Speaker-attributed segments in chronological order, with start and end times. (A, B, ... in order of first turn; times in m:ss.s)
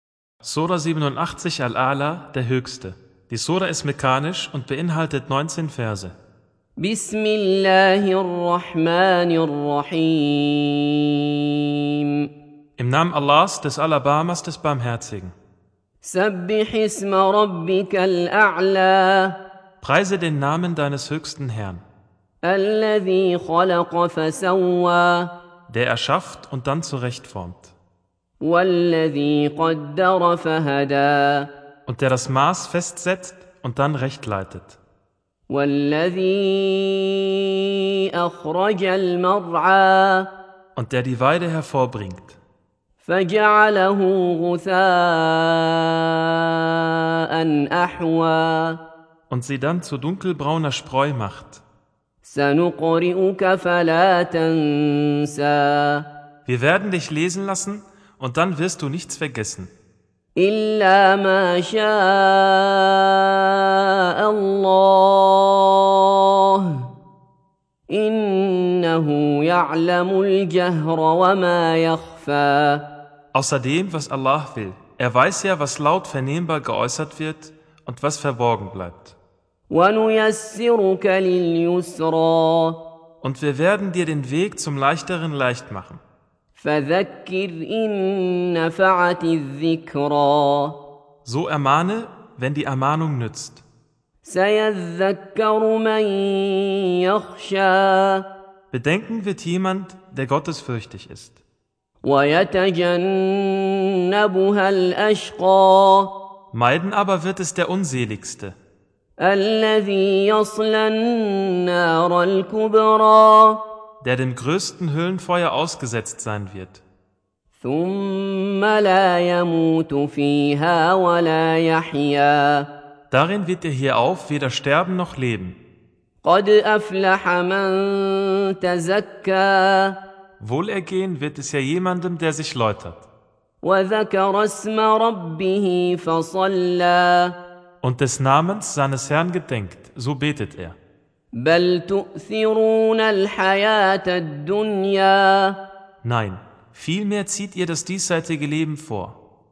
0:00.4-0:06.2 A
0:06.8-0:11.3 B
0:12.8-0:15.3 A
0:16.0-0:19.4 B
0:19.8-0:21.8 A
0:22.4-0:25.3 B
0:25.7-0:27.7 A
0:28.4-0:31.5 B
0:31.9-0:34.8 A
0:35.5-0:40.3 B
0:40.8-0:42.4 A
0:43.0-0:48.8 B
0:49.3-0:51.6 A
0:52.2-0:56.0 B
0:56.4-0:59.7 A
1:00.4-1:06.8 B
1:07.9-1:12.8 B
1:13.3-1:19.2 A
1:19.7-1:22.8 B
1:23.2-1:26.0 A
1:26.6-1:30.8 B
1:31.2-1:33.6 A
1:34.2-1:38.2 B
1:38.7-1:41.4 A
1:42.0-1:46.1 B
1:46.5-1:48.6 A
1:49.2-1:53.6 B
1:54.0-1:56.8 A
1:57.6-2:02.7 B
2:03.1-2:05.6 A
2:06.2-2:10.0 B
2:10.4-2:13.1 A
2:13.6-2:17.4 B
2:17.8-2:20.8 A
2:21.4-2:25.6 B
2:26.0-2:29.2 A